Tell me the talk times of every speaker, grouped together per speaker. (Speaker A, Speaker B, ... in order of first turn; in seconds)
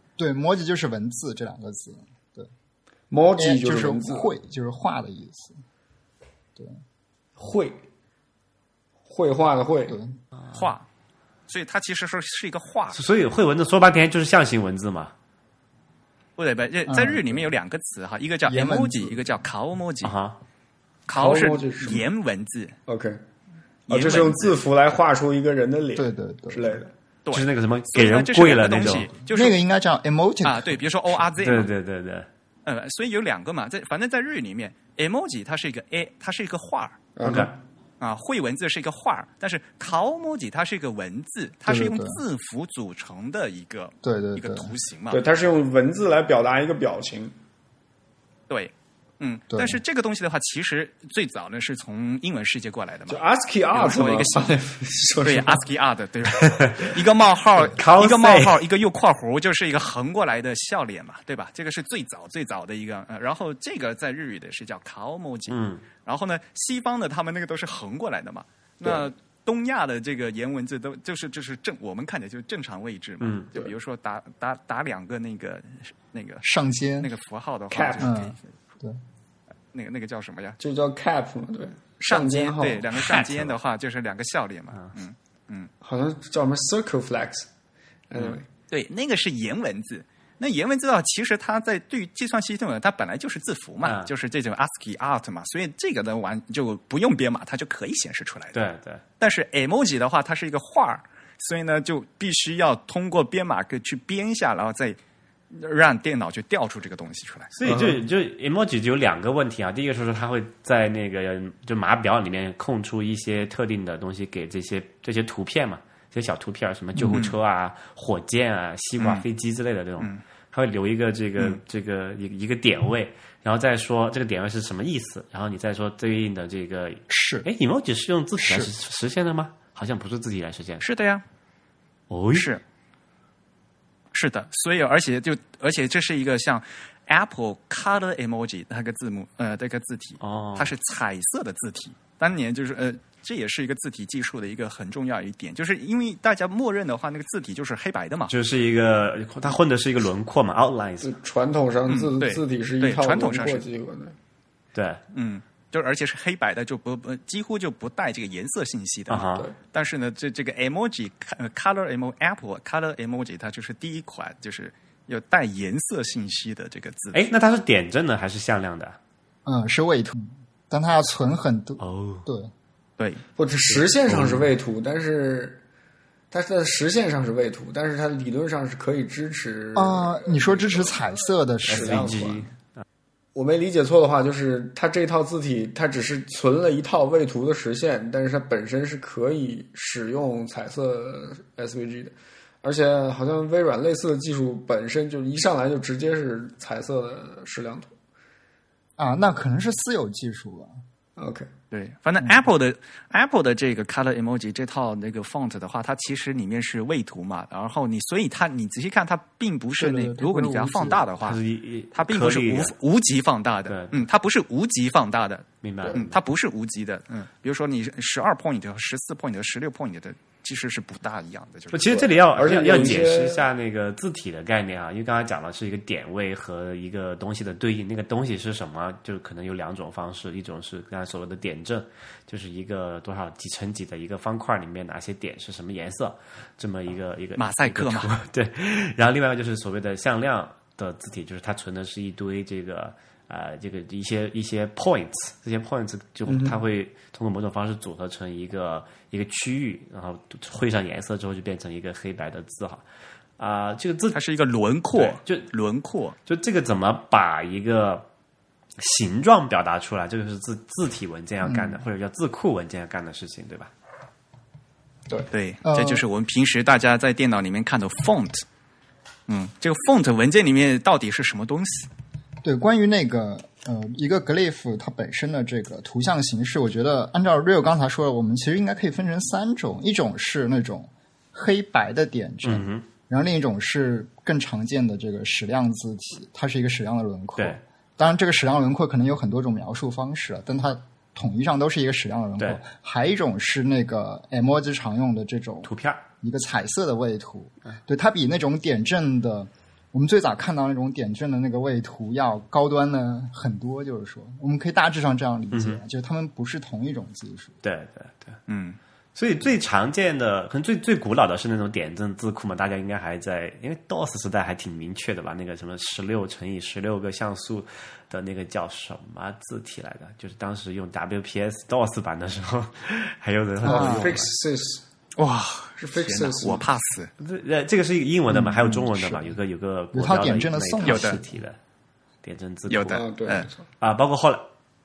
Speaker A: 0.2-2.5, 3.4-5.6, 9.9-10.2, 16.9-17.5, 18.5-19.4, 26.0-26.8, 29.3-30.8, 41.7-42.2, 44.0-44.7, 49.5-49.8, 76.4-77.1, 78.0-79.0, 127.1-127.5, 128.4-128.7, 169.4-172.5, 179.8-182.2, 199.0-200.7, 209.8-211.0, 261.4-261.8, 265.1-266.1, 272.4-295.7, 296.2-307.6, 323.6-324.2, 328.3-329.4, 329.9-331.4
Speaker B: 3.1-4.3, 7.4-7.8, 9.1-10.0, 21.1-22.1, 22.9-23.2, 23.9-26.9, 37.2-37.6, 45.1-47.4, 53.1-55.6, 77.7-78.3, 80.6-83.0, 85.8-87.5, 88.1-88.5, 107.7-108.0, 151.0-154.2, 173.4-175.6, 176.3-181.0, 181.7-182.5, 183.3-197.9, 201.2-201.5, 222.3-223.5, 246.3-246.6, 323.6-324.9, 325.8-326.7, 332.9-333.6
Speaker C: 10.5-10.9, 11.5-13.0, 16.4-20.1, 21.1-22.8, 23.9-24.6, 27.2-29.6, 30.4-31.7, 32.7-37.0, 38.0-45.2, 48.5-54.5, 55.2-76.5, 77.0-78.5, 79.7-80.6, 82.0-85.7, 88.2-98.6, 99.2-105.0, 105.5-107.5, 117.0-117.4, 119.0-119.2, 130.8-131.2, 132.3-132.6, 134.1-148.4, 151.9-153.6, 155.1-167.2, 173.0-173.2, 201.7-211.4, 211.9-222.2, 237.4-238.1, 254.1-256.2, 265.3-268.4, 269.3-271.9, 308.5-308.8, 325.2-327.1, 330.8-331.2, 332.7-333.5
Speaker D: 12.9-15.1, 20.0-20.4, 27.3-29.1, 31.4-32.3, 37.2-37.5, 56.4-56.9, 57.7-58.6, 65.5-65.8, 73.2-73.5, 83.0-83.5, 93.8-94.1, 98.5-99.0, 107.5-130.8, 132.1-132.5, 140.2-140.7, 148.3-151.1, 154.7-155.0, 159.1-159.5, 167.1-169.0, 171.8-172.3, 174.1-174.5, 181.7-182.8, 211.2-212.7, 213.7-214.1, 215.6-216.2, 221.7-252.8, 253.4-254.2, 254.9-255.5, 256.3-258.1, 258.8-263.7, 282.4-282.8, 295.6-296.0, 305.5-305.8, 307.6-308.4, 309.1-324.3, 327.2-331.6, 332.2-333.0, 333.8-334.5